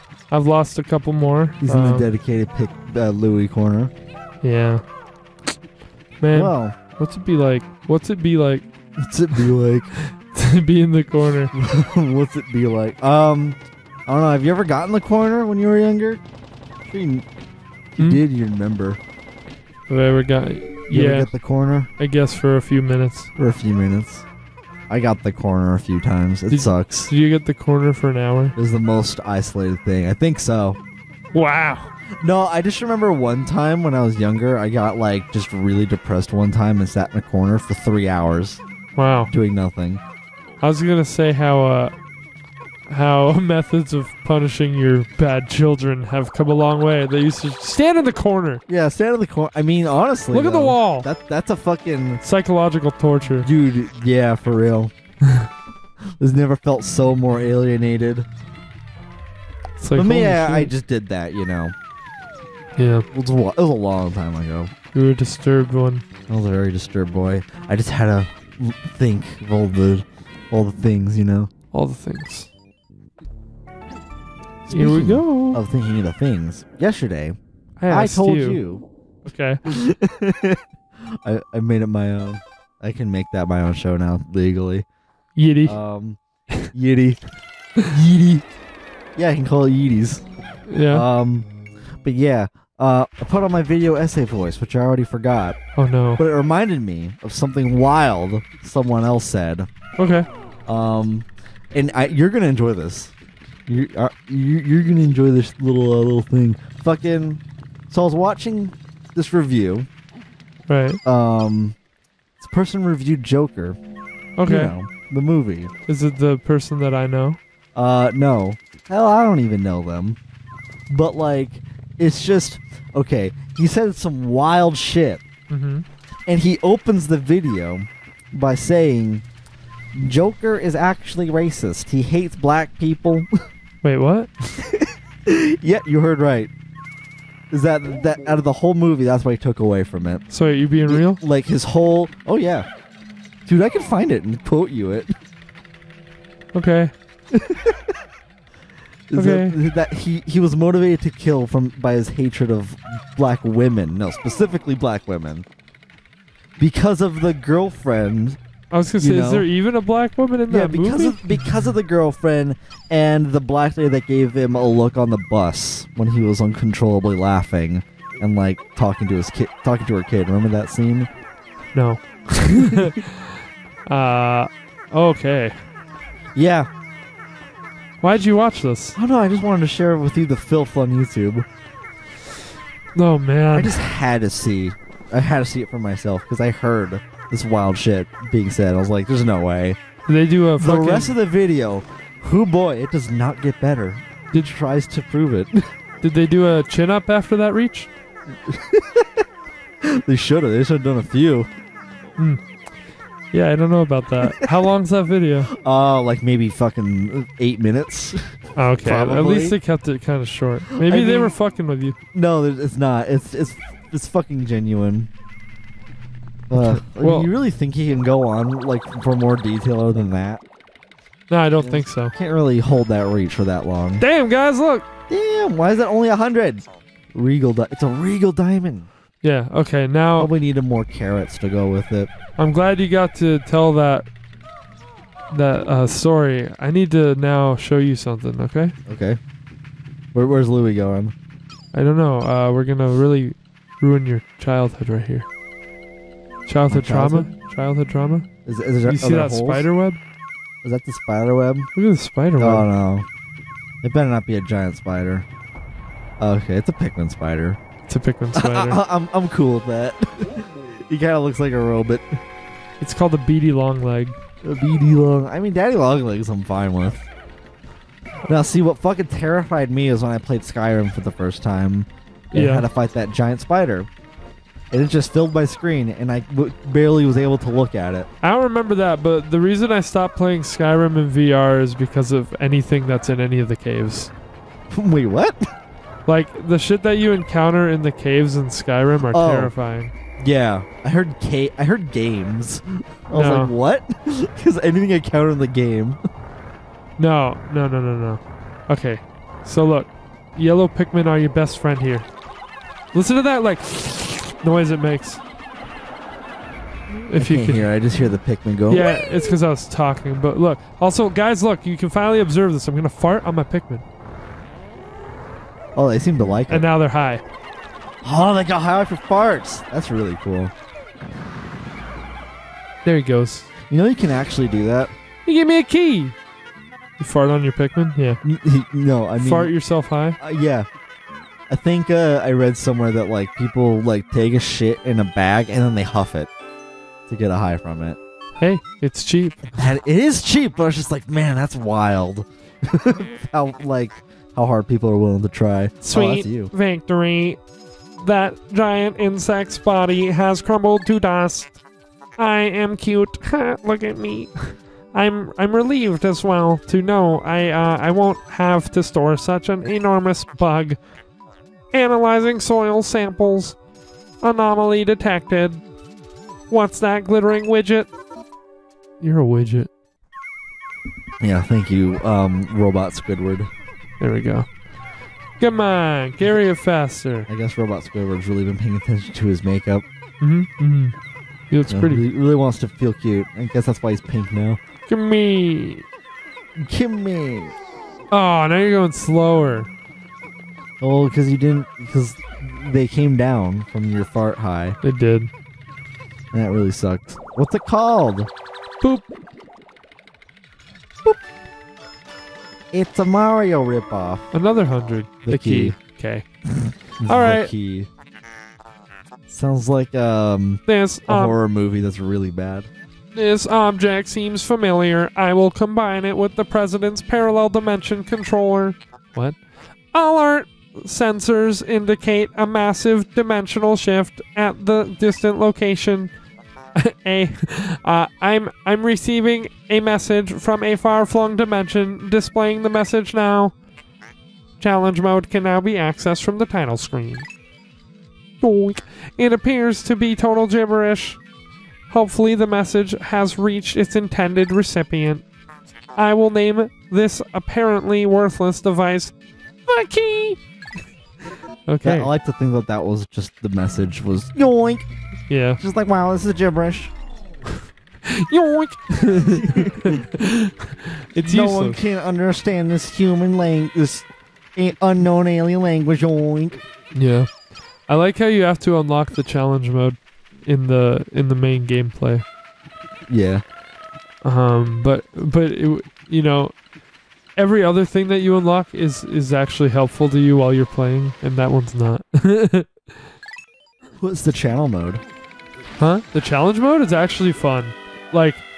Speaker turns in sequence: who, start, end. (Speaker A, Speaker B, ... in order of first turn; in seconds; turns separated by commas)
Speaker A: 0.3-2.1, Speaker B: 1.6-3.9, Speaker A: 4.4-4.8, Speaker A: 6.2-8.7, Speaker B: 6.3-6.8, Speaker B: 9.0-9.9, Speaker A: 9.3-11.5, Speaker B: 11.5-16.2, Speaker B: 16.9-17.3, Speaker B: 17.9-19.0, Speaker A: 19.9-21.3, Speaker B: 20.9-21.9, Speaker A: 22.0-23.3, Speaker B: 23.4-24.3, Speaker B: 24.9-27.1, Speaker A: 26.5-28.6, Speaker B: 28.6-30.8, Speaker A: 31.3-31.9, Speaker B: 32.2-38.6, Speaker A: 39.0-39.3, Speaker B: 39.3-40.0, Speaker A: 40.6-42.0, Speaker A: 42.9-48.6, Speaker B: 48.7-52.2, Speaker A: 50.3-51.1, Speaker A: 52.2-53.5, Speaker B: 53.4-54.9, Speaker B: 56.2-58.3, Speaker A: 59.8-60.7, Speaker B: 60.0-61.7, Speaker A: 62.8-63.1, Speaker B: 63.1-64.7, Speaker A: 64.9-66.0, Speaker B: 66.3-71.5, Speaker A: 71.7-72.5, Speaker B: 74.7-77.4, Speaker A: 74.7-75.6, Speaker A: 77.8-78.6, Speaker B: 77.9-78.8, Speaker A: 79.2-79.6, Speaker B: 79.7-80.6, Speaker B: 81.2-84.8, Speaker A: 85.3-85.8, Speaker B: 85.6-86.2, Speaker B: 86.7-87.2, Speaker B: 87.8-88.4, Speaker B: 89.2-90.2, Speaker A: 90.7-91.0, Speaker B: 90.9-91.5, Speaker B: 92.0-95.6, Speaker A: 95.8-96.2, Speaker B: 96.2-99.7, Speaker A: 100.0-100.3, Speaker B: 100.7-103.1, Speaker B: 103.7-109.9, Speaker A: 110.7-111.0, Speaker B: 111.0-111.8, Speaker B: 112.4-113.8, Speaker A: 114.4-114.8, Speaker B: 114.4-115.7, Speaker A: 115.9-117.4, Speaker B: 117.8-120.2, Speaker B: 120.9-125.2, Speaker A: 125.5-125.8, Speaker B: 126.3-129.2, Speaker B: 129.9-133.3, Speaker A: 133.8-134.5, Speaker B: 134.6-136.5, Speaker B: 137.5-140.2, Speaker A: 140.3-141.2, Speaker B: 140.9-142.7, Speaker B: 143.4-145.1, Speaker A: 146.5-146.9, Speaker B: 147.3-147.8, Speaker B: 149.1-155.4, Speaker A: 149.1-149.6, Speaker B: 156.6-158.4, Speaker A: 158.7-161.6, Speaker B: 159.0-159.5, Speaker B: 160.5-171.1, Speaker A: 171.8-175.6, Speaker B: 172.7-173.0, Speaker B: 176.3-176.7, Speaker A: 178.0-179.0, Speaker B: 178.9-181.4, Speaker A: 182.9-183.8, Speaker B: 183.5-189.8, Speaker A: 190.1-191.1, Speaker B: 190.6-195.6, Speaker A: 196.0-197.9, Speaker B: 198.4-199.2, Speaker B: 199.8-201.5, Speaker A: 203.3-205.5, Speaker B: 205.6-209.6, Speaker A: 208.6-211.9, Speaker B: 210.8-211.3, Speaker B: 212.1-215.1, Speaker B: 216.5-220.4, Speaker A: 216.5-217.3, Speaker A: 221.3-222.1, Speaker B: 221.6-224.0, Speaker A: 224.0-224.8, Speaker B: 225.1-228.9, Speaker A: 229.2-230.3, Speaker B: 230.2-232.1, Speaker A: 232.4-234.1, Speaker A: 235.3-238.8, Speaker B: 238.9-239.2, Speaker B: 240.1-241.1, Speaker A: 241.7-245.3, Speaker A: 246.5-248.2, Speaker B: 246.7-247.3, Speaker B: 248.5-249.7, Speaker A: 248.8-250.0, Speaker B: 250.6-251.7, Speaker A: 251.7-252.7, Speaker B: 252.4-253.1, Speaker B: 253.8-255.2, Speaker B: 256.2-257.6, Speaker A: 257.9-258.8, Speaker B: 258.4-262.2, Speaker A: 262.8-264.2, Speaker B: 264.4-267.1, Speaker B: 268.2-273.9, Speaker A: 272.3-272.7, Speaker B: 274.7-278.1, Speaker A: 278.2-284.1, Speaker B: 284.7-285.4, Speaker A: 286.1-289.9, Speaker B: 289.1-289.5, Speaker B: 290.2-296.0, Speaker A: 293.1-293.5, Speaker A: 297.0-302.1, Speaker A: 302.9-305.2, Speaker A: 307.0-307.7, Speaker B: 307.1-308.9, Speaker A: 308.7-313.8, Speaker B: 315.8-316.7, Speaker A: 316.5-317.2, Speaker B: 318.0-320.5, Speaker A: 322.9-323.5, Speaker B: 323.7-324.9, Speaker A: 325.2-326.2, Speaker A: 327.0-328.2, Speaker B: 328.2-329.5, Speaker A: 329.2-330.2, Speaker B: 330.2-330.7, Speaker B: 331.5-336.3, Speaker B: 337.1-338.0, Speaker A: 338.4-339.7, Speaker B: 339.5-346.5, Speaker A: 345.8-347.4, Speaker A: 348.0-351.6, Speaker A: 352.2-360.8, Speaker A: 361.7-363.6, Speaker A: 364.2-365.6, Speaker A: 366.5-367.9, Speaker A: 369.0-369.7, Speaker B: 371.2-373.5, Speaker A: 374.0-374.5, Speaker A: 375.4-377.3, Speaker B: 377.3-379.9, Speaker A: 380.2-381.0, Speaker A: 381.5-382.0, Speaker B: 381.7-384.6, Speaker A: 384.9-385.9, Speaker B: 386.6-387.5, Speaker A: 388.1-389.7, Speaker B: 390.8-394.8, Speaker A: 394.8-395.3, Speaker B: 396.3-398.3, Speaker A: 398.8-399.1, Speaker B: 402.7-404.3, Speaker A: 404.3-406.2, Speaker B: 405.3-405.8, Speaker B: 406.5-407.9, Speaker A: 407.0-407.5, Speaker B: 409.3-412.7, Speaker A: 410.7-411.4, Speaker A: 413.1-426.1, Speaker A: 426.8-433.6, Speaker A: 434.6-437.3, Speaker A: 438.4-441.2, Speaker A: 441.9-445.2, Speaker A: 446.0-449.1, Speaker A: 449.7-450.4, Speaker A: 451.7-452.1, Speaker B: 451.8-454.9, Speaker A: 455.3-455.6, Speaker B: 455.6-456.9, Speaker A: 458.1-461.8, Speaker B: 459.1-460.0, Speaker B: 461.2-466.6, Speaker A: 466.9-467.3, Speaker A: 467.9-472.2, Speaker B: 473.1-473.4, Speaker A: 474.2-476.5, Speaker A: 477.4-483.0, Speaker B: 484.0-485.0, Speaker A: 485.8-488.4